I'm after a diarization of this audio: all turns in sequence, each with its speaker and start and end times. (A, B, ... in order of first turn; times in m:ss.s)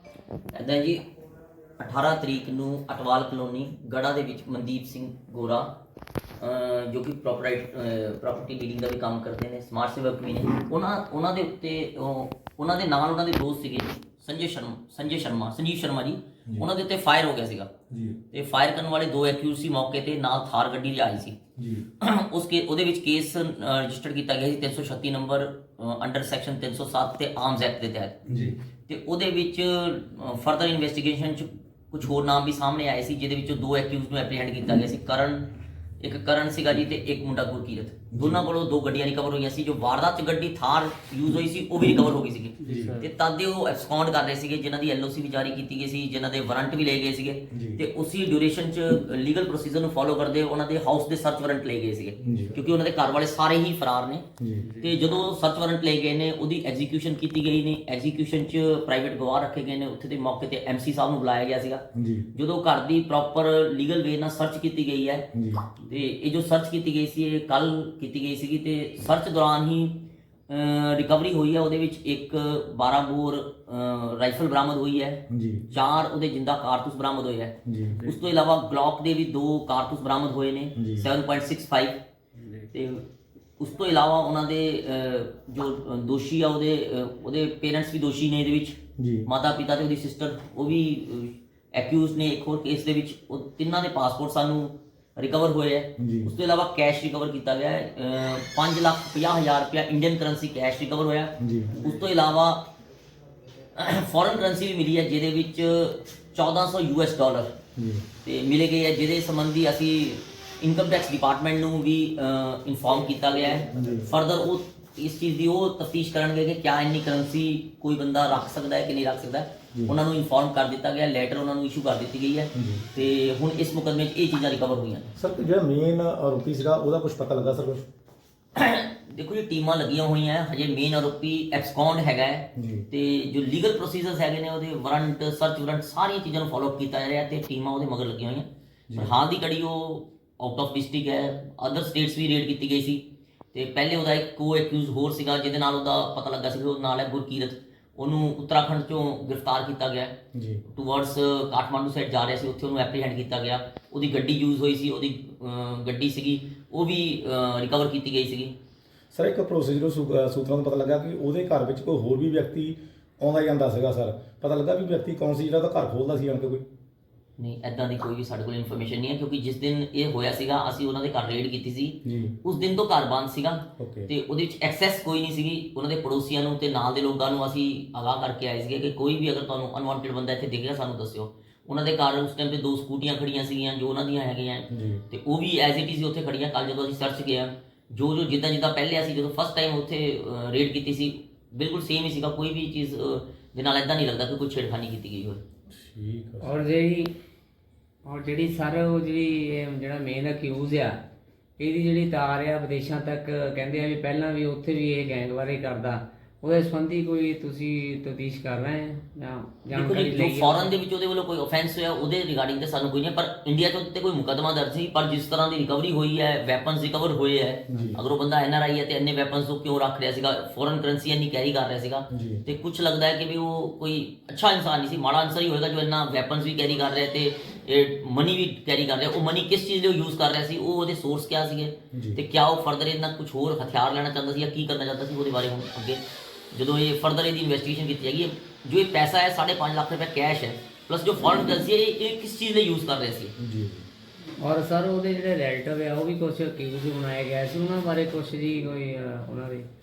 0:00.5-0:01.0 A
0:01.8-0:05.8 A
0:06.4-0:17.7 A
0:17.9-0:18.2 B
0:18.3-0:21.4 A
0:21.6-0:21.8 B
0:22.0-0:28.2 A
0:28.3-0:28.6 B
0:28.9-0:35.5 A
0:36.0-1:05.3 A
0:38.1-0:38.4 B
0:42.6-0:43.0 B
0:47.5-0:47.8 B
0:52.2-0:52.6 B
0:54.4-0:54.7 B
1:02.0-1:02.2 B
1:05.3-1:05.7 B
1:05.8-1:22.0 A
1:15.3-1:15.7 B
1:17.6-1:18.0 B
1:20.8-1:21.1 B
1:22.7-1:23.0 A
1:23.6-1:42.7 A
1:29.0-1:29.3 B
1:36.0-1:36.3 B
1:41.4-1:41.9 B
1:43.8-1:47.6 A
1:47.8-1:48.0 B
1:48.2-2:05.1 A
1:53.7-1:54.1 B
2:02.5-2:02.9 B
2:05.2-2:07.9 B
2:08.6-2:38.6 A
2:12.6-2:12.8 B
2:18.9-2:19.1 B
2:30.3-2:30.6 B
2:39.1-2:46.6 B
2:47.4-3:15.4 A
2:52.0-2:52.3 B
2:53.8-2:54.1 B
3:04.7-3:05.0 B
3:15.7-3:16.6 B
3:16.4-3:17.1 C
3:18.0-3:21.0 C
3:21.6-3:30.7 C
3:29.7-4:03.3 A
3:37.7-3:38.0 B
3:42.1-3:42.4 B
3:51.9-3:52.2 B
4:03.4-4:03.8 B
4:04.4-4:09.7 C